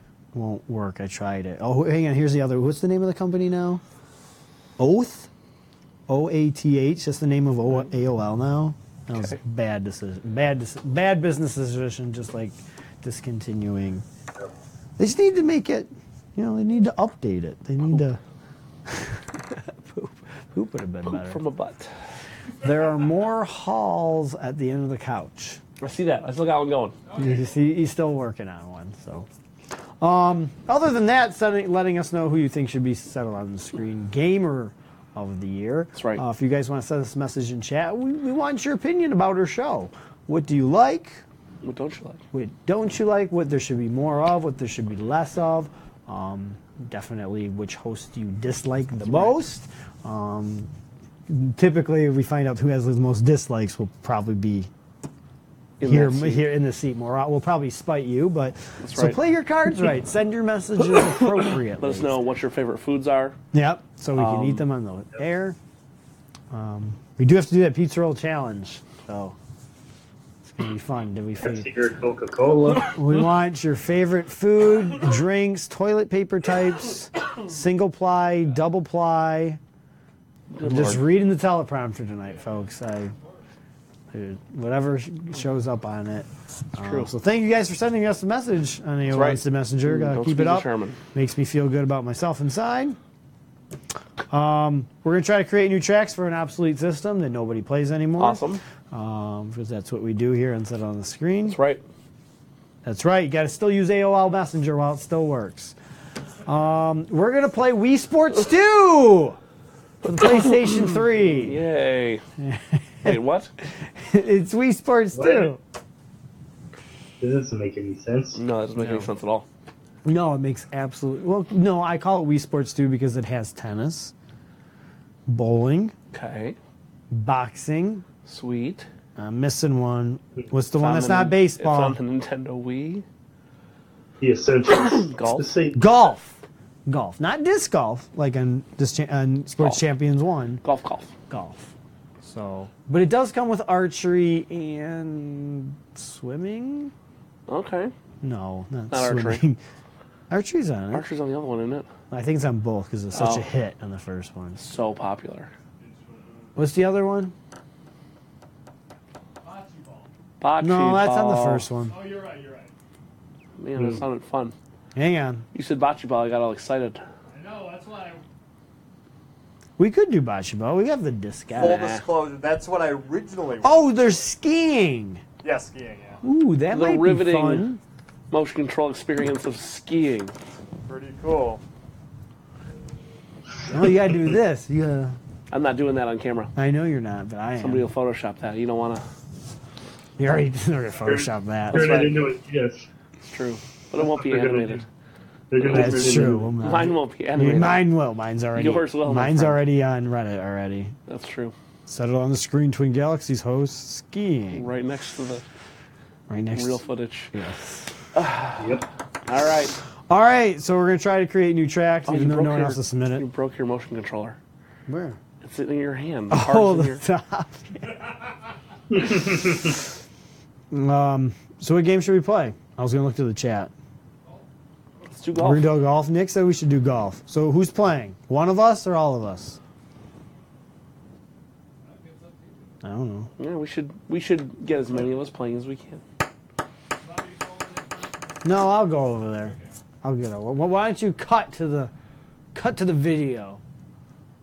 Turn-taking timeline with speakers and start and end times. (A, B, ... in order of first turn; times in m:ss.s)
0:00.3-0:03.8 A
0:04.8-0:05.3 A
0:06.1-0:14.0 A
0:15.0-0:18.2 A
0:18.9-0:21.4 A
0:21.1-0:21.9 B
0:22.6-0:25.6 A
0:25.8-0:27.0 B
0:27.1-0:29.3 A
0:30.0-0:41.2 A
0:36.0-0:36.2 B
0:41.6-0:42.2 B
0:42.3-0:50.7 A
0:51.3-0:54.7 A
0:55.8-0:56.4 B
0:55.8-1:02.1 A
0:58.8-0:59.2 B
1:01.8-1:03.4 B
1:03.5-1:05.6 A
1:04.2-1:04.6 B
1:06.5-1:09.4 A
1:10.5-1:11.7 A
1:11.4-1:13.0 C
1:12.9-1:19.6 A
1:20.5-1:21.0 B
1:20.6-1:23.1 A
1:24.1-1:33.0 A
1:26.8-1:27.1 B
1:29.1-1:31.0 B
1:34.3-1:41.6 A
1:38.2-1:38.6 B
1:41.5-1:41.8 B
1:42.8-1:45.8 A
1:46.4-1:49.4 A
1:50.0-1:51.6 A
1:51.4-1:52.2 B
1:52.4-1:55.6 A
1:53.0-1:53.5 B
1:55.1-1:55.5 C
1:57.2-1:58.4 C
1:58.4-1:59.4 B
1:58.8-1:59.1 A
2:00.0-2:04.1 A
2:05.3-2:05.9 A
2:06.1-2:06.6 B
2:07.1-2:08.0 A
2:08.2-2:08.9 B
2:09.2-2:12.0 A
2:10.8-2:13.0 B
2:14.2-2:15.8 C
2:15.1-2:15.5 B
2:15.7-2:20.6 A
2:20.6-2:21.1 B
2:21.3-2:21.7 A
2:22.2-2:26.9 A
2:27.5-2:27.9 B
2:28.2-2:29.6 A
2:28.9-2:29.4 B
2:30.3-2:31.0 A
2:30.9-2:31.9 B
2:32.1-2:34.6 A
2:33.1-2:33.5 B
2:34.6-2:35.5 B
2:35.8-2:36.5 D
2:36.6-2:37.3 A
2:39.4-2:40.1 D
2:40.4-2:41.6 B
2:40.6-2:42.0 A
2:41.9-2:42.7 D
2:43.6-2:44.5 B
2:44.9-2:45.4 A
2:45.5-2:47.0 B
2:47.3-2:48.2 D
2:49.8-2:51.9 A
2:51.5-2:53.9 E
2:51.6-2:52.0 B
2:53.6-2:55.2 A
2:55.4-2:56.2 E
2:56.2-2:57.8 A
2:56.7-2:57.6 B
2:58.3-3:00.3 B
3:00.9-3:01.6 E
3:03.7-3:05.2 A
3:05.5-3:06.5 B
3:06.6-3:07.9 A
3:07.6-3:09.0 B
3:10.2-3:12.2 A
3:11.1-3:12.8 C
3:11.7-3:12.1 B
3:13.2-3:14.8 B
3:14.0-3:14.8 C
3:15.5-3:16.5 C
3:15.6-3:17.9 B
3:15.6-3:20.9 A
3:18.5-3:19.7 B
3:21.1-3:21.5 B
3:21.9-3:24.7 A
3:24.5-3:25.4 B
3:26.3-3:26.8 A
3:26.5-3:27.3 B
3:27.3-3:27.9 A
3:28.1-3:29.8 B
3:28.6-3:28.9 C
3:30.1-3:33.2 A
3:32.1-3:34.4 B
3:34.9-3:35.2 A
3:35.4-3:37.0 B
3:36.3-3:38.0 A
3:38.9-3:39.7 C
3:40.7-3:43.7 A
3:45.1-3:45.7 B
3:45.3-3:49.6 A
3:51.9-3:52.7 D
3:52.8-3:53.3 A
3:53.4-3:56.0 B
3:57.1-3:58.4 D
3:58.4-4:01.9 A
4:02.5-4:03.6 A